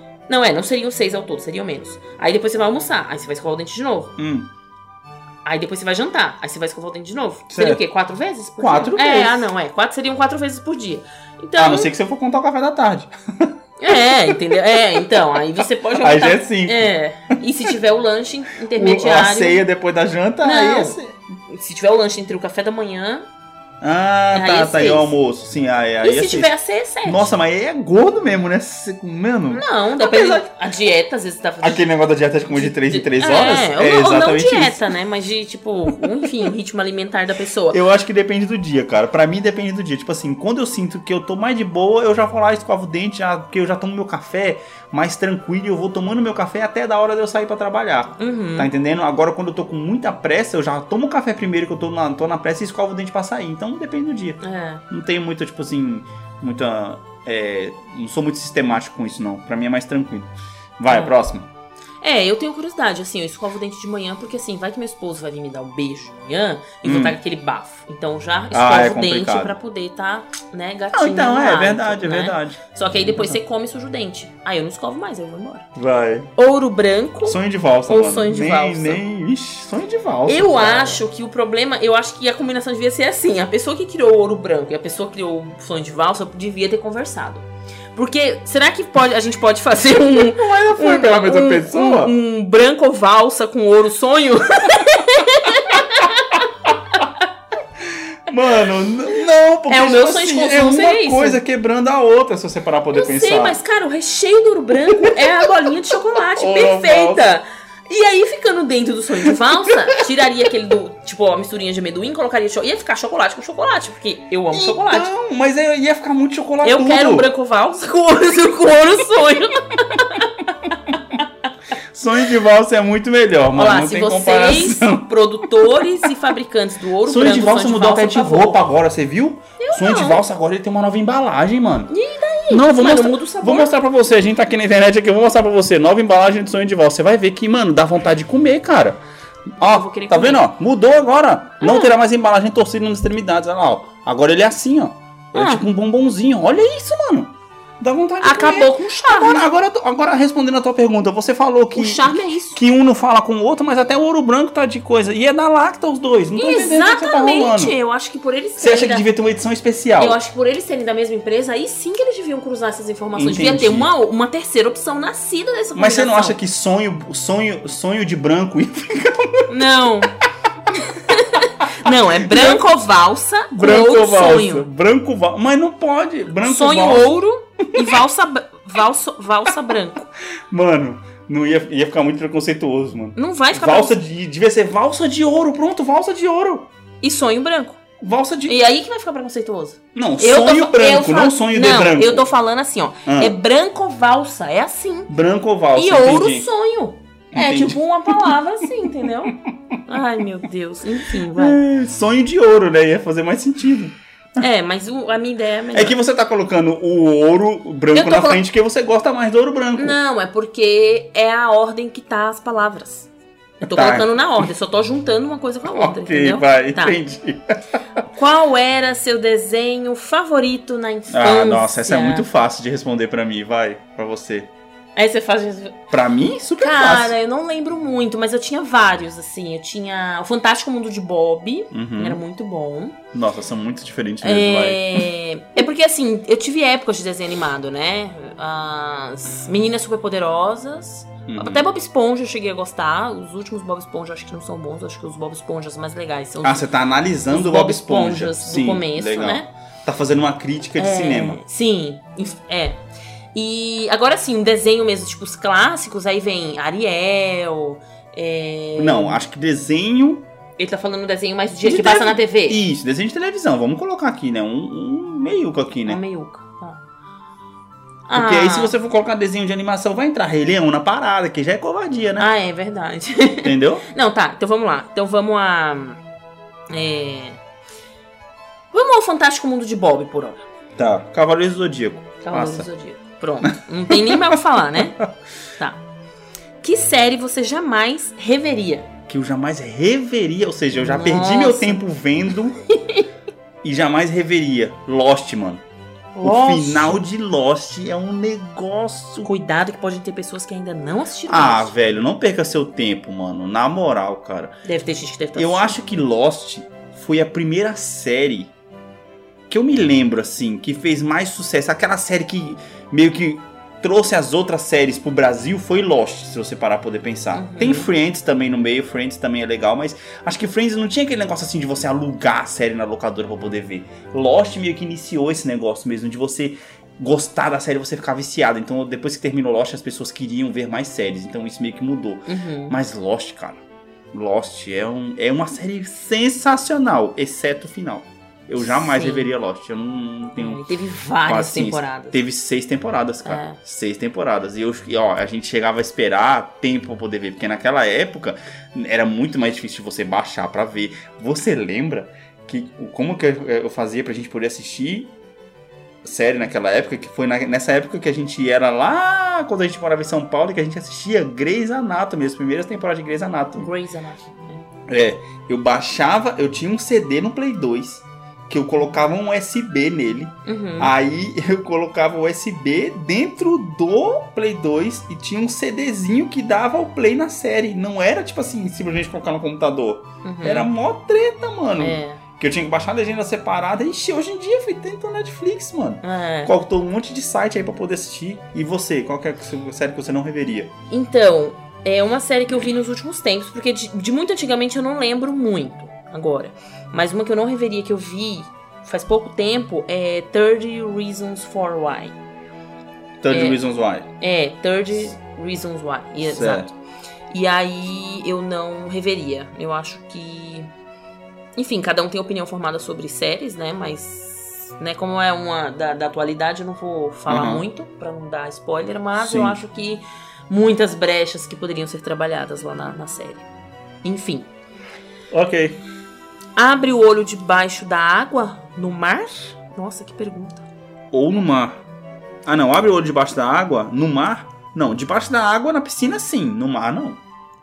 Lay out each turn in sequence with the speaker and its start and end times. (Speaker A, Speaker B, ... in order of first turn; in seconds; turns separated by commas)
Speaker A: 0.3-4.2, Speaker B: 4.2-4.5, Speaker A: 5.4-11.9, Speaker B: 7.5-7.8, Speaker B: 8.6-9.5, Speaker B: 11.6-14.6, Speaker A: 13.8-19.6, Speaker B: 16.0-16.9, Speaker B: 18.7-21.1, Speaker A: 20.4-23.2, Speaker B: 23.8-26.5, Speaker A: 24.3-25.1, Speaker A: 26.0-27.3, Speaker B: 27.0-30.5, Speaker A: 29.5-31.9, Speaker B: 31.6-34.9, Speaker A: 32.5-37.8, Speaker B: 37.7-61.5, Speaker A: 48.2-48.7, Speaker A: 54.4-54.8, Speaker A: 60.9-61.1, Speaker A: 62.0-75.7, Speaker B: 66.8-67.2, Speaker B: 68.5-69.5, Speaker B: 70.9-73.4, Speaker B: 75.8-76.3, Speaker A: 76.4-79.0, Speaker B: 77.2-81.0, Speaker A: 80.3-96.4, Speaker B: 90.2-92.1, Speaker B: 97.8-103.6, Speaker A: 99.7-101.4, Speaker A: 102.9-115.1, Speaker B: 106.4-107.2, Speaker B: 114.5-117.3, Speaker A: 116.6-121.2, Speaker B: 121.9-125.1, Speaker A: 123.5-128.6, Speaker B: 127.0-131.9, Speaker A: 129.6-130.2, Speaker A: 131.9-133.7, Speaker B: 132.5-139.0, Speaker B: 139.6-157.8, Speaker A: 139.6-140.5, Speaker A: 141.6-141.9, Speaker A: 145.3-145.7, Speaker A: 148.2-149.5, Speaker A: 151.7-152.6, Speaker A: 156.3-159.1, Speaker B: 158.6-160.2, Speaker A: 160.0-166.4, Speaker B: 163.1-163.9, Speaker B: 165.8-169.5, Speaker A: 169.5-170.2, Speaker A: 170.8-174.7, Speaker B: 171.8-172.7, Speaker B: 173.5-177.2, Speaker A: 176.4-180.1, Speaker B: 180.5-186.7, Speaker A: 183.2-184.0, Speaker A: 187.0-187.8, Speaker B: 188.0-188.6, Speaker A: 188.5-195.1, Speaker B: 189.9-192.3, Speaker B: 193.1-193.4, Speaker B: 195.1-196.5, Speaker A: 195.8-201.6, Speaker B: 197.3-198.9, Speaker B: 201.3-204.0, Speaker A: 204.4-206.0, Speaker B: 205.7-210.0, Speaker A: 207.9-208.4, Speaker A: 209.8-213.1, Speaker A: 213.6-217.0, Speaker B: 213.6-214.4, Speaker B: 215.7-217.5, Speaker A: 218.1-222.2, Speaker B: 221.1-224.5, Speaker A: 224.9-225.8, Speaker B: 225.9-227.1, Speaker A: 226.6-233.0, Speaker B: 231.7-232.2, Speaker B: 233.1-235.1, Speaker A: 234.2-246.7, Speaker B: 241.3-241.7, Speaker B: 246.4-251.4, Speaker A: 247.3-249.5, Speaker A: 250.8-252.8, Speaker A: 253.3-259.2, Speaker B: 258.8-260.2, Speaker A: 260.6-262.6, Speaker B: 261.6-266.0, Speaker A: 265.9-266.8, Speaker A: 268.1-268.7, Speaker B: 268.1-272.3, Speaker A: 272.2-276.0, Speaker B: 273.4-273.9, Speaker A: 276.7-277.4, Speaker A: 278.7-280.4, Speaker B: 280.8-282.7, Speaker A: 282.2-285.0, Speaker B: 283.4-284.4, Speaker A: 286.6-288.9, Speaker B: 289.1-292.6, Speaker A: 290.7-291.8, Speaker A: 292.8-293.0, Speaker B: 293.6-295.6, Speaker A: 296.1-297.1, Speaker B: 296.2-299.3, Speaker A: 299.2-301.7, Speaker B: 301.3-304.6, Speaker A: 304.6-305.7, Speaker B: 305.4-308.5, Speaker B: 309.5-333.6, Speaker A: 317.3-317.9, Speaker A: 332.3-332.7, Speaker B: 334.1-340.7, Speaker A: 338.6-339.3, Speaker A: 340.4-342.2, Speaker B: 341.2-355.1, Speaker A: 343.2-343.6, Speaker B: 356.0-363.7, Speaker A: 363.6-364.6, Speaker B: 364.9-390.7, Speaker A: 370.4-370.9, Speaker A: 380.2-380.7, Speaker A: 381.8-382.2, Speaker A: 386.0-386.5, Speaker A: 390.9-402.1, Speaker B: 403.2-404.1, Speaker A: 403.3-403.6, Speaker A: 404.2-406.7, Speaker B: 406.2-406.7, Speaker A: 407.3-410.7, Speaker A: 411.6-423.4, Speaker B: 417.3-417.6, Speaker B: 419.1-419.6, Speaker A: 424.0-424.5, Speaker B: 425.3-425.8, Speaker A: 426.6-430.6, Speaker B: 431.1-431.8, Speaker B: 432.4-437.2